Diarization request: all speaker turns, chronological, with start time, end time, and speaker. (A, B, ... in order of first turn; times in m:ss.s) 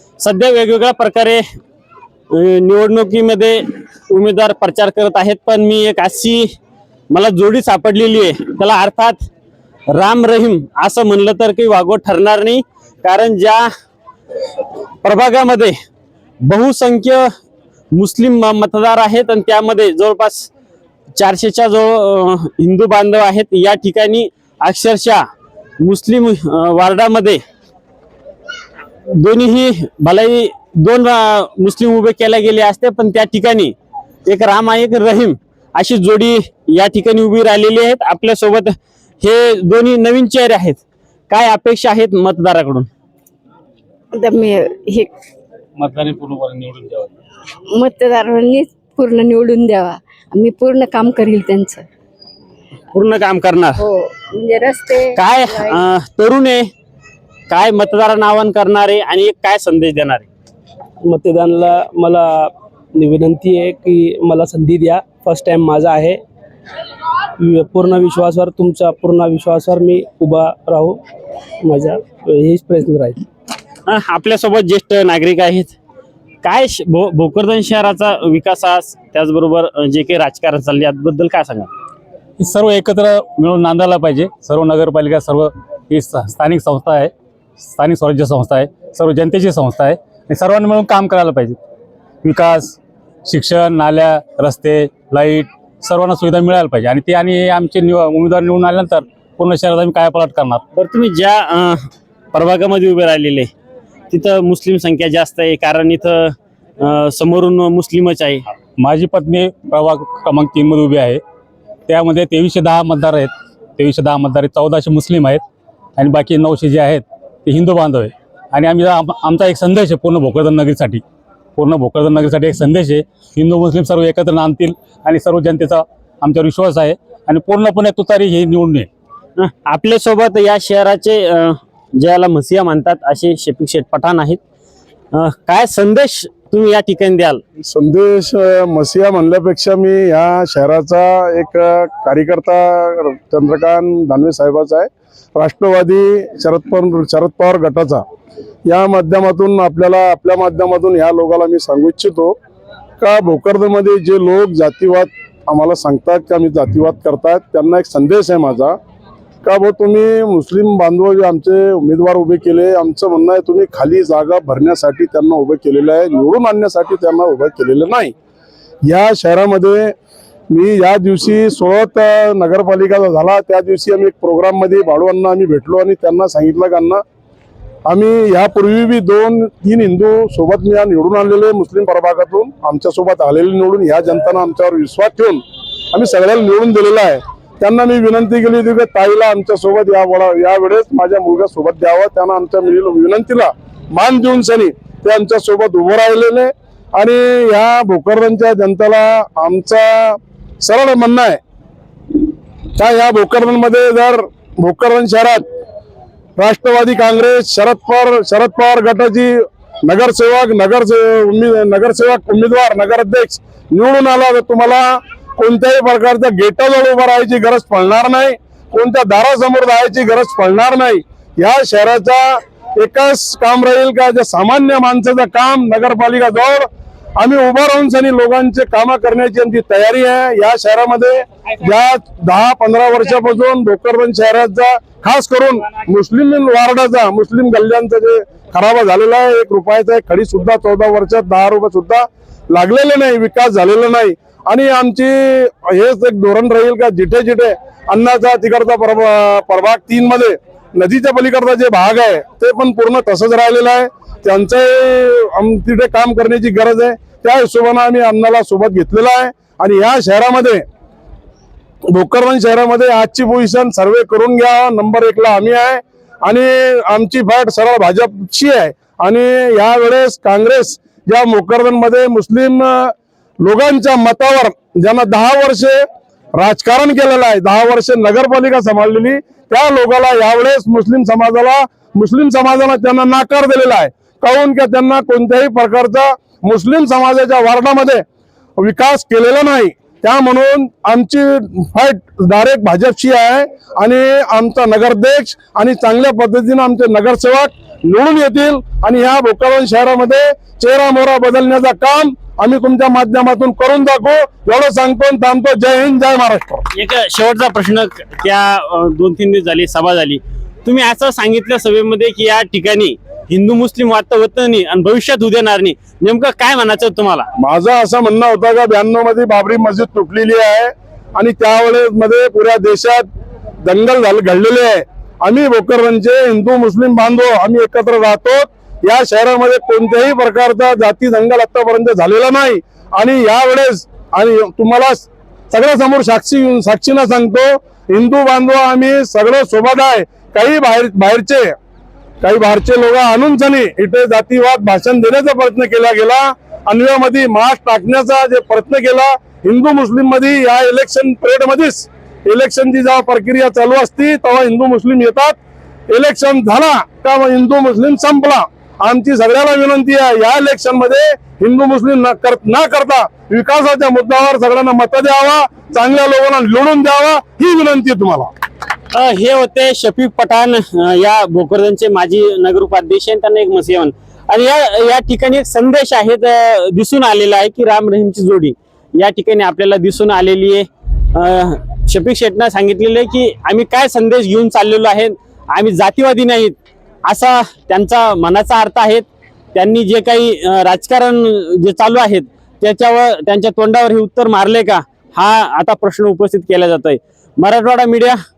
0:00.2-0:01.4 A
0:02.3-0:06.5 A
0:07.1-0:09.2 A
0:09.9-0:13.7 A
0:15.0-0:15.7 A
0:16.4-0:17.3 A
0:17.9-0:20.5 A
0:21.2-0:25.2 A
0:25.8-0:27.4 A
0:29.1-0:33.7 A
0:34.2-0:42.9 A
0:44.2-0:45.1 B
0:45.8-0:47.1 C
0:47.8-0:51.8 B
0:52.9-0:53.8 A
0:53.8-0:55.1 B
0:55.2-0:56.7 A
0:57.5-1:00.3 A
1:01.0-1:06.2 D
1:07.4-1:11.0 D
1:11.6-1:13.2 D
1:13.8-1:15.7 A
1:16.4-1:21.7 A
1:22.4-1:31.6 C
1:32.2-1:40.6 C
1:40.7-1:41.8 A
1:42.3-1:43.5 A
1:44.1-1:48.5 A
1:48.8-1:51.2 C
1:51.9-1:55.4 C
1:56.0-2:01.0 C
2:01.6-2:08.9 C
2:09.4-2:14.4 A
2:15.1-2:17.4 A
2:17.6-2:28.0 E
2:28.6-2:32.4 E
2:33.0-2:38.8 E
2:39.4-2:48.1 E
2:48.8-2:49.9 E
2:50.5-2:57.0 E
2:57.8-3:21.4 E
3:22.8-3:25.4 E
3:26.4-4:20.6 E
4:21.9-4:35.8 E
4:36.3-4:48.0 E
4:48.6-5:06.6 E
5:06.7-5:17.3 A
5:17.4-5:23.0 E
5:23.6-5:41.5 E
5:42.2-5:55.4 E
5:55.9-6:08.3 E
6:08.9-6:38.2 A